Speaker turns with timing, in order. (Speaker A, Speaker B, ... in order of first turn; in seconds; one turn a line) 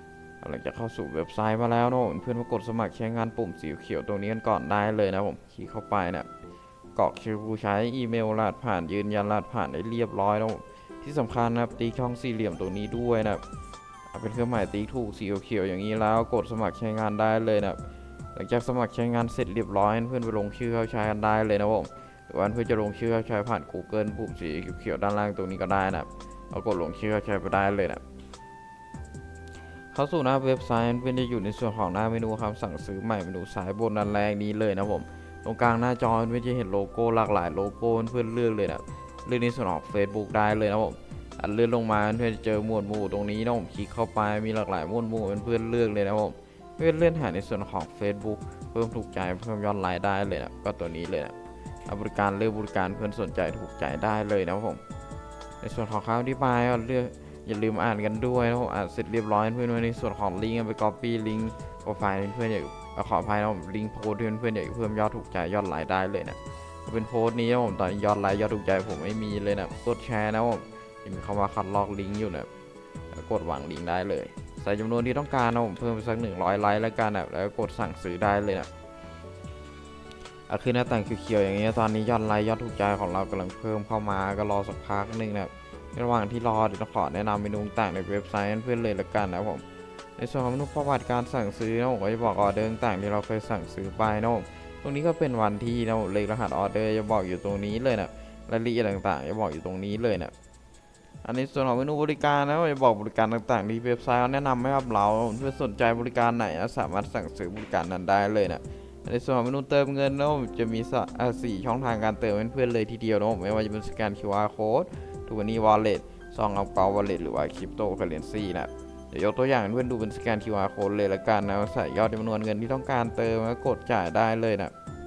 Speaker A: 0.4-6.3
Speaker A: 7.0-13.4
Speaker A: 14.1-17.8
Speaker A: 18.4-28.0
Speaker A: 29.9-51.4
Speaker A: 51.9-54.8
Speaker A: 55.6-72.5
Speaker A: 73.1-78.7
Speaker A: 80.5-89.6
Speaker A: 90.2-100.3
Speaker A: 101.2-124.7